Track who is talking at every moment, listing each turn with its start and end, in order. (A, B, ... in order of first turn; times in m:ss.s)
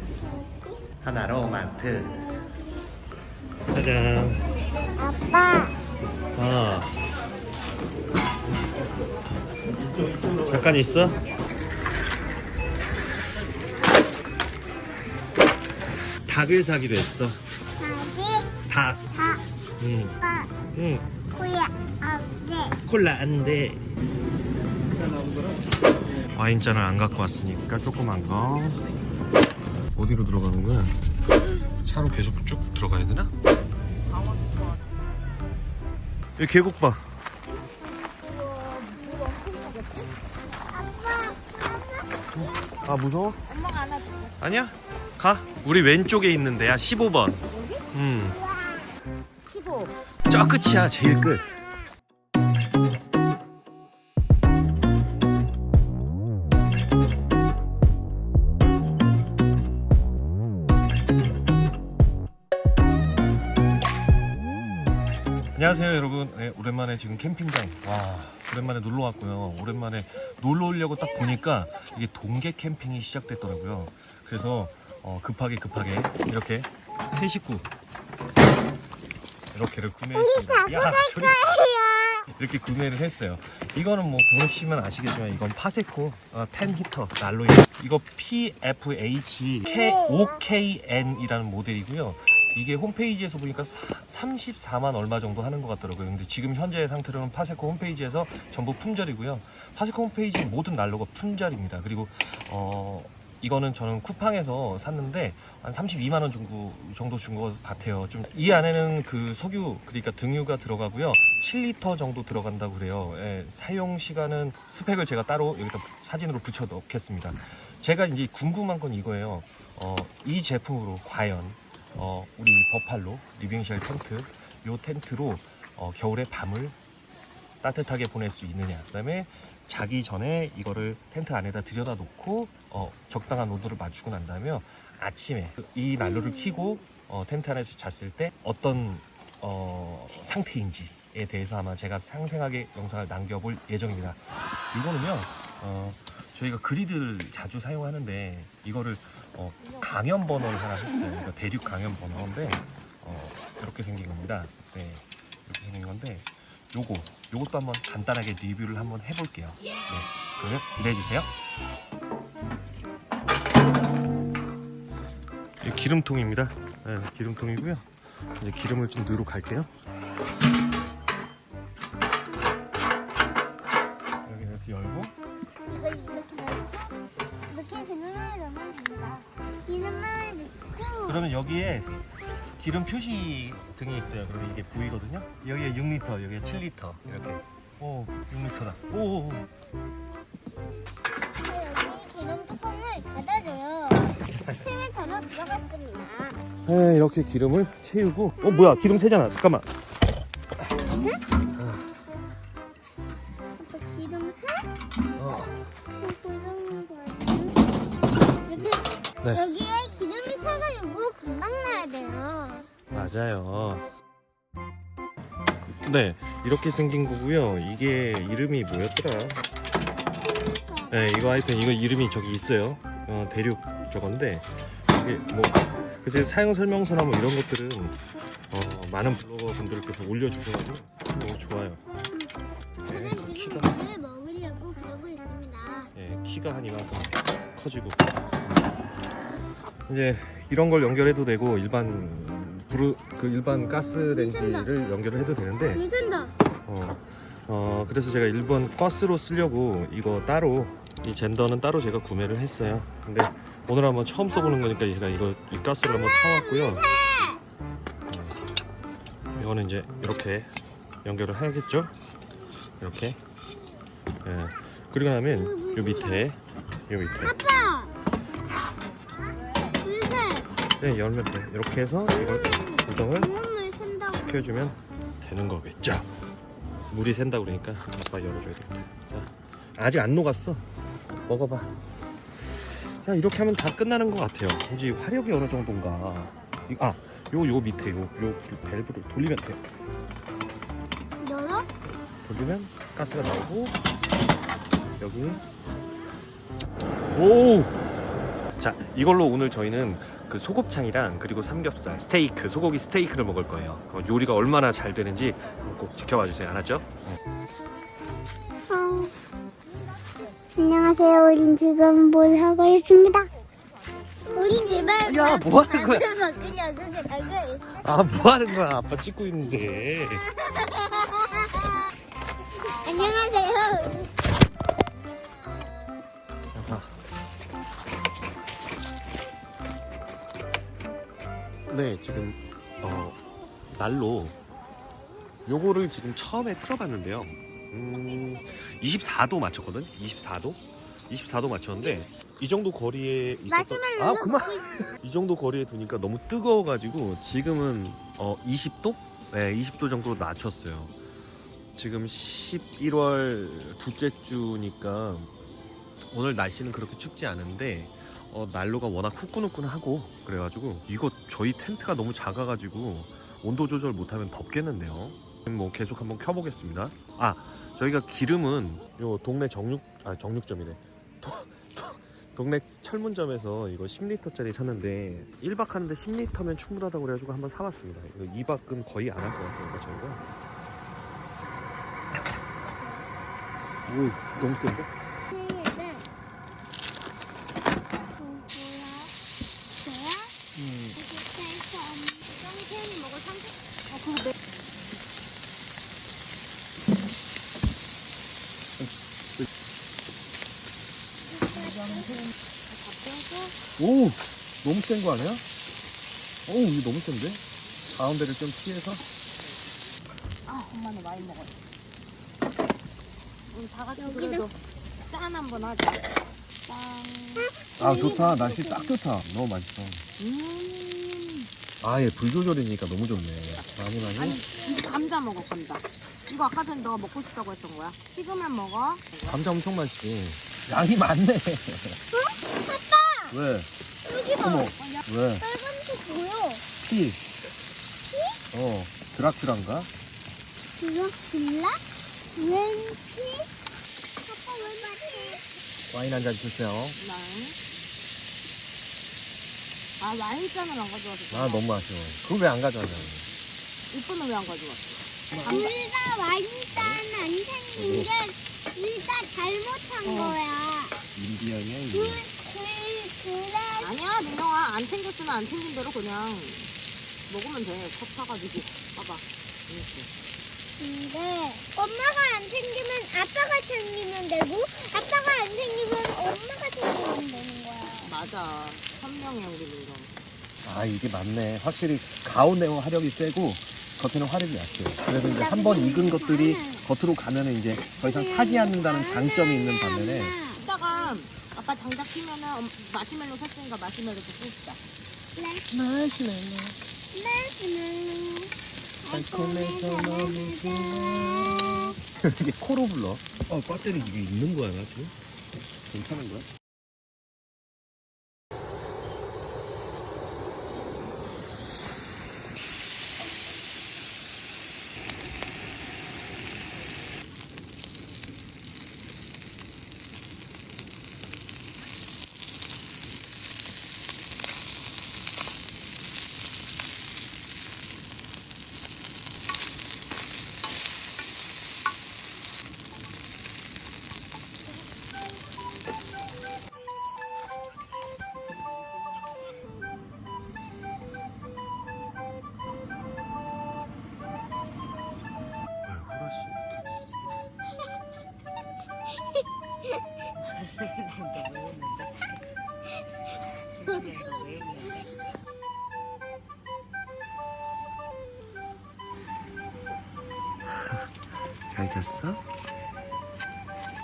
0:01.0-0:02.2 A
0:03.7-0:04.5 A
0:05.0-0:05.7 B
0:06.3-0:06.9 A
0:10.3-0:11.2 A
0:16.2-0:17.4 A
0:17.8-0:18.6 B
0:18.7-0:19.1 A
0:19.1-0:19.4 B
0:19.8-0:21.1 A
0:20.2-0:20.5 B
0:21.3-0:22.8 B
0:22.8-0:23.9 A
0:26.3-0:28.8 A
0:30.0-0:31.0 A
0:31.8-0:33.3 A
0:36.4-0:37.2 A
0:38.5-0:40.1 C
0:40.8-0:41.8 B
0:42.4-0:43.4 A
0:43.4-0:44.4 C
0:44.4-0:48.4 A
0:47.5-0:47.8 C
0:49.4-0:50.0 C
0:50.3-0:51.5 A
1:05.6-1:17.7 A
1:19.5-1:21.4 A
1:20.1-1:22.2 B
1:22.3-2:06.8 A
1:29.6-1:30.4 B
2:07.6-2:41.3 A
2:16.0-2:16.8 B
2:45.6-2:49.7 A
2:54.2-2:55.1 A
2:55.7-2:57.0 B
2:57.5-3:01.2 B
3:01.0-3:09.5 A
3:11.4-3:16.4 B
3:16.6-3:19.7 A
3:18.4-3:19.0 B
3:20.8-3:21.2 B
3:21.6-3:21.9 A
3:23.6-3:24.7 B
3:25.2-3:25.6 A
3:26.0-3:27.6 B
3:28.5-3:32.7 B
3:32.9-3:33.8 A
3:35.8-3:39.4 A
3:40.9-3:51.8 A
3:52.8-3:53.8 A
3:52.8-3:55.9 B
3:56.0-3:58.6 A
3:59.9-4:05.8 A
4:04.1-4:04.7 B
4:05.7-4:06.4 B
4:06.6-4:16.9 A
4:16.0-4:17.4 B
4:18.1-4:18.4 A
4:19.4-4:20.5 A
4:21.0-4:21.9 A
4:22.8-4:23.2 A
4:24.2-4:27.4 A
4:25.3-4:26.3 B
4:27.2-4:27.9 B
4:29.8-4:30.5 B
4:30.8-4:33.3 A
4:32.1-4:34.6 B
4:34.2-4:36.1 A
4:36.9-4:40.7 A
4:41.2-4:41.8 A
4:42.4-4:49.6 A
4:51.2-4:51.7 B
4:52.2-4:53.8 A
4:55.0-4:55.4 A
4:57.1-4:57.8 A
4:58.6-5:07.2 A
5:08.7-5:09.1 B
5:10.6-5:13.3 B
5:14.3-5:18.3 B
5:15.0-5:16.1 A
5:17.8-5:20.3 A
5:20.4-5:21.6 B
5:22.6-5:24.1 B
5:26.5-5:26.9 A
5:31.7-5:33.2 A
5:33.7-5:34.4 A
5:35.5-5:51.0 A
5:43.5-5:45.0 B
5:51.8-5:55.3 A
5:56.1-6:20.2 A
6:23.9-6:24.9 A
6:25.3-6:26.1 B
6:28.0-6:29.1 B
6:29.8-6:30.4 B
6:30.6-6:31.0 A
6:31.0-6:32.4 B
6:32.4-6:34.3 C
6:38.8-6:39.4 A
6:41.4-6:43.6 C
6:41.5-6:42.2 B
6:43.8-6:45.4 A
6:46.5-6:49.0 A
6:50.5-6:51.6 C
6:53.5-6:54.5 C
6:54.0-6:54.4 B
6:55.1-6:56.0 C
6:56.6-6:57.5 C
6:57.4-6:58.8 B
6:57.8-7:00.0 A
6:58.1-6:58.7 C
7:00.2-7:01.5 C
7:01.8-7:04.4 A
7:03.6-7:09.4 C
7:09.2-7:12.0 A
7:12.1-7:13.4 B
7:13.3-7:13.7 A
7:14.0-7:14.7 B
7:14.4-7:15.4 A
7:14.8-7:15.0 C
7:15.4-7:16.6 B
7:16.8-7:17.2 A
7:18.1-7:18.4 B
7:18.5-7:19.9 A
7:20.8-7:21.8 B
7:22.4-7:23.5 B
7:24.3-7:25.4 B
7:25.9-7:27.0 A
7:27.0-7:27.6 C
7:30.0-7:31.7 C
7:31.3-7:33.3 A
7:33.9-7:35.7 C
7:35.4-7:41.0 B
7:36.7-7:37.0 A
7:37.8-7:38.1 A
7:40.1-7:40.4 A
7:41.1-7:42.2 A
7:41.9-7:43.9 B
7:43.8-7:46.7 C
7:47.3-7:50.1 C
7:50.8-7:58.1 B
7:58.0-8:00.1 C
8:00.6-8:10.4 A
8:05.2-8:06.8 B
8:08.0-8:11.1 B
8:10.6-8:14.8 C
8:15.4-8:15.7 B
8:15.7-8:16.8 A
8:17.1-8:18.5 B
8:19.0-8:22.0 B
8:19.1-8:25.1 A
8:25.9-8:26.5 A
9:05.8-9:07.0 A
9:14.2-9:14.8 C
9:20.7-9:21.1 A
9:21.7-9:22.4 A